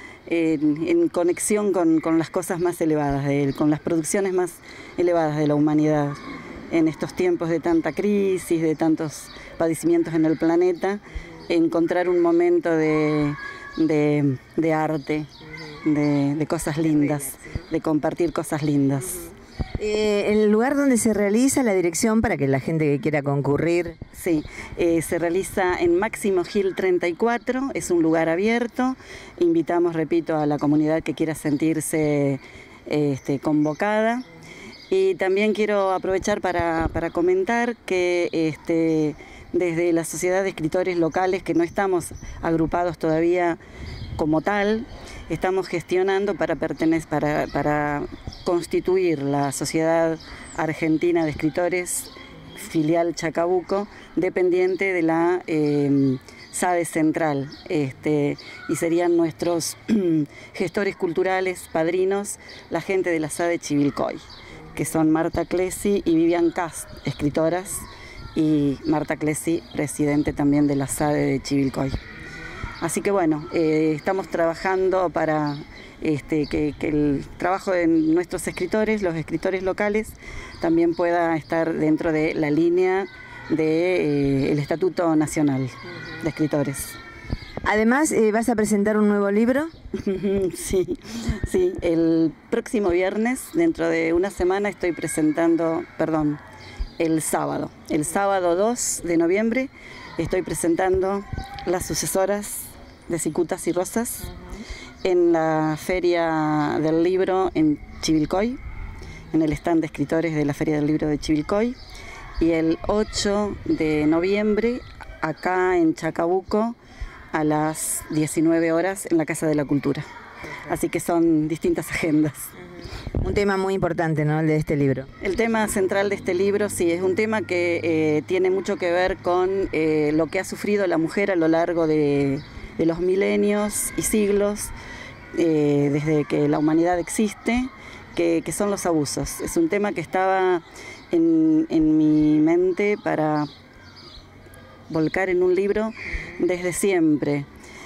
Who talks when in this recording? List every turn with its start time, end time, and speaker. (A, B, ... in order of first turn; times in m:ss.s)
0:00.3-0:19.3 A
0:19.8-0:24.0 B
0:24.1-0:34.2 A
0:34.9-0:43.6 A
0:44.2-1:12.0 A
1:12.8-1:27.0 A
1:27.6-1:29.7 B
1:29.9-1:36.4 A
1:37.0-1:44.3 A
1:45.0-1:48.6 A
1:49.3-1:51.8 A
1:52.4-1:56.8 A
1:57.3-2:00.0 A
2:00.6-2:02.5 A
2:03.2-2:05.1 B
2:05.2-2:14.7 A
2:15.3-2:23.5 A
2:24.9-2:27.5 A